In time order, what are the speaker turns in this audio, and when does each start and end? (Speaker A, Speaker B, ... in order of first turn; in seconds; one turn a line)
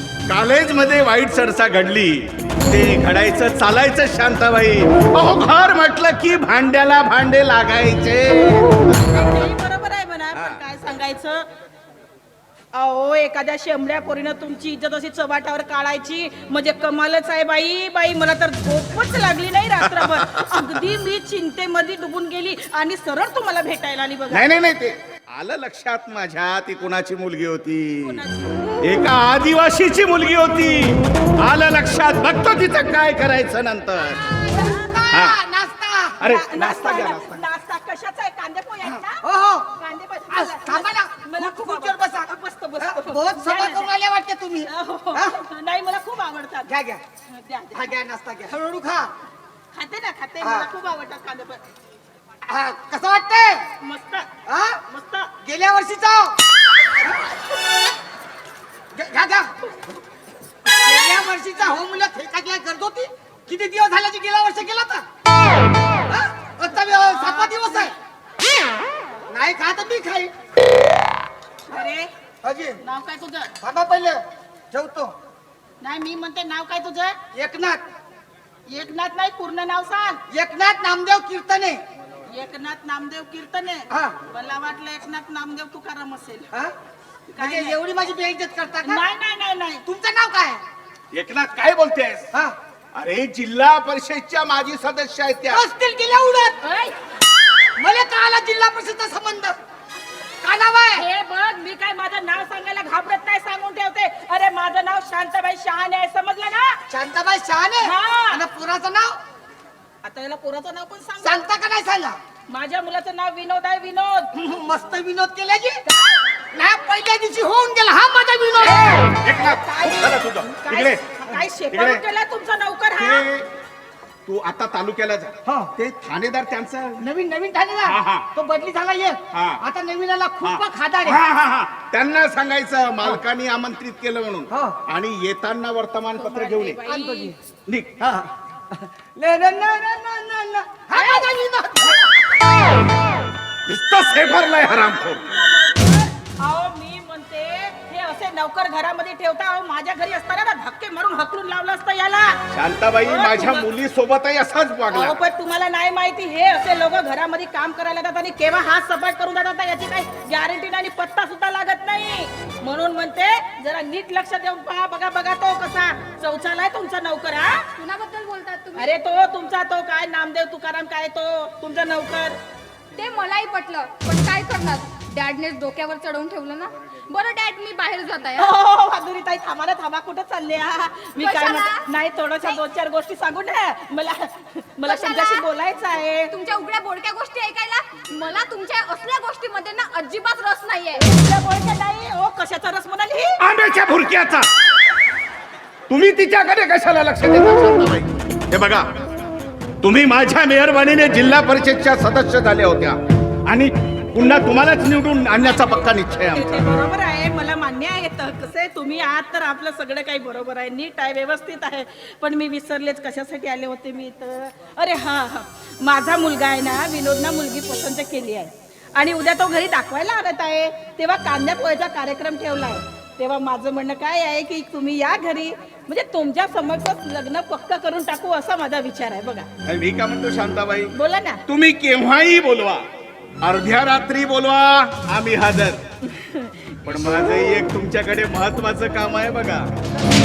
Speaker A: 0.3-9.3
Speaker B: 8.9-11.5
Speaker A: 10.3-10.6
Speaker B: 12.7-24.5
Speaker A: 19.8-20.6
Speaker A: 24.3-28.2
Speaker B: 28.0-28.8
Speaker A: 28.8-34.4
Speaker C: 34.5-36.2
Speaker A: 35.1-35.4
Speaker A: 36.2-37.4
Speaker B: 36.2-39.2
Speaker C: 38.8-39.7
Speaker B: 39.8-43.9
Speaker C: 40.3-45.4
Speaker B: 44.6-46.7
Speaker C: 46.6-47.0
Speaker B: 47.3-47.9
Speaker C: 47.7-49.1
Speaker B: 49.7-51.6
Speaker C: 50.4-50.7
Speaker C: 52.5-53.6
Speaker B: 53.8-54.3
Speaker C: 54.5-54.8
Speaker B: 54.9-55.3
Speaker C: 55.4-56.4
Speaker C: 58.9-59.5
Speaker B: 59.6-60.0
Speaker C: 60.6-65.0
Speaker C: 66.0-67.9
Speaker B: 67.0-67.6
Speaker C: 69.3-70.3
Speaker B: 71.7-72.1
Speaker C: 72.4-72.8
Speaker B: 72.8-73.5
Speaker C: 73.6-75.1
Speaker B: 75.8-77.2
Speaker C: 77.3-77.8
Speaker B: 78.7-80.2
Speaker C: 80.3-81.8
Speaker B: 82.3-86.5
Speaker B: 87.3-87.8
Speaker C: 87.4-89.0
Speaker B: 88.8-89.8
Speaker C: 89.8-90.6
Speaker A: 91.1-92.3
Speaker A: 92.9-95.6
Speaker C: 95.5-96.6
Speaker B: 96.6-97.0
Speaker C: 97.8-99.6
Speaker C: 100.4-101.1
Speaker B: 100.9-106.8
Speaker C: 106.9-109.2
Speaker B: 107.8-108.5
Speaker B: 110.0-111.4
Speaker C: 111.2-112.2
Speaker B: 112.5-114.3
Speaker C: 114.3-115.8
Speaker B: 115.8-116.3
Speaker C: 116.5-118.9
Speaker A: 118.6-121.0
Speaker B: 119.2-123.2
Speaker A: 121.7-122.0
Speaker A: 123.0-123.5
Speaker A: 124.2-127.0
Speaker C: 125.5-125.7
Speaker C: 127.0-131.2
Speaker A: 127.8-128.3
Speaker A: 129.3-129.6
Speaker A: 130.4-136.8
Speaker C: 134.5-134.8
Speaker B: 136.2-137.3
Speaker C: 136.8-137.4
Speaker A: 137.7-138.0
Speaker C: 138.0-142.2
Speaker B: 140.9-141.3
Speaker A: 143.7-145.2
Speaker B: 145.3-152.4
Speaker A: 152.5-155.2
Speaker B: 153.0-153.7
Speaker B: 154.9-167.7
Speaker D: 167.7-168.9
Speaker B: 168.7-172.4
Speaker D: 172.9-178.5
Speaker B: 178.4-186.3
Speaker D: 181.2-181.9
Speaker D: 184.9-185.5
Speaker D: 186.3-191.0
Speaker B: 190.9-193.4
Speaker A: 193.4-194.5
Speaker A: 195.9-198.9
Speaker A: 199.8-206.7
Speaker B: 206.3-229.5
Speaker A: 229.6-230.9
Speaker B: 230.9-231.4
Speaker A: 231.5-232.8
Speaker A: 233.4-235.8
Speaker B: 236.0-236.9
Speaker A: 236.8-239.7